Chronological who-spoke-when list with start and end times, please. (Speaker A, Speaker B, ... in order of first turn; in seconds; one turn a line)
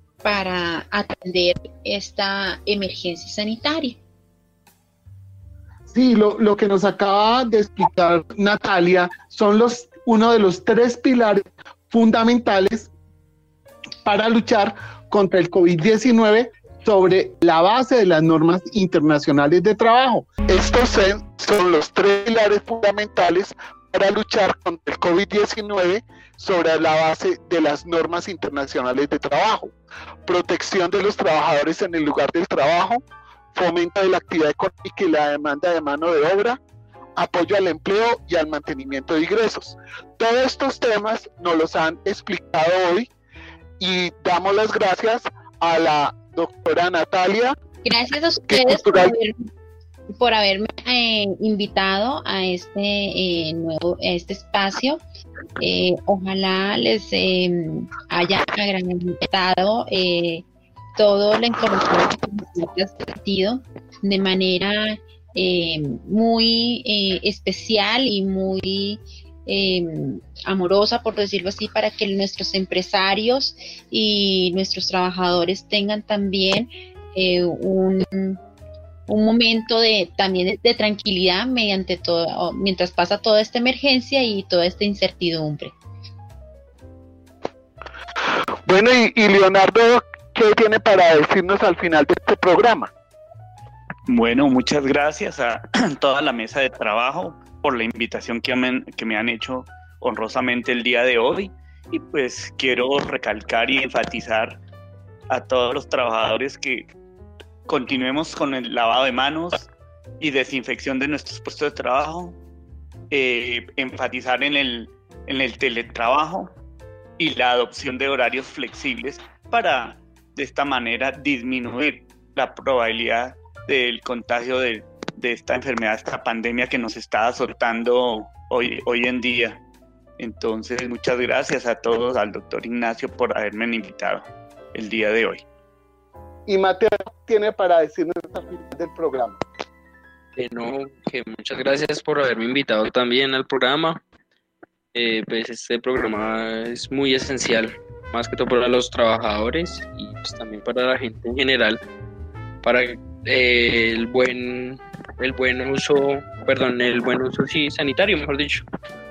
Speaker A: 0.2-4.0
Speaker B: 5.9-12.9
Speaker B: 14.0-29.7
Speaker B: 30.2-33.0
Speaker B: 33.5-36.6
Speaker B: 37.1-43.1
Speaker B: 43.8-47.5
Speaker A: 47.8-49.5
Speaker B: 48.5-49.1
Speaker A: 50.1-55.0
Speaker A: 55.6-60.4
Speaker A: 61.0-78.4
Speaker A: 79.1-85.7
Speaker B: 88.7-92.9
Speaker C: 94.1-104.6
Speaker C: 105.3-106.9
Speaker C: 107.7-109.7
Speaker C: 110.2-112.3
Speaker C: 113.1-116.5
Speaker C: 117.2-129.6
Speaker C: 130.2-135.4
Speaker B: 136.5-139.4
Speaker D: 140.4-144.0
Speaker D: 144.9-151.8
Speaker D: 152.6-158.7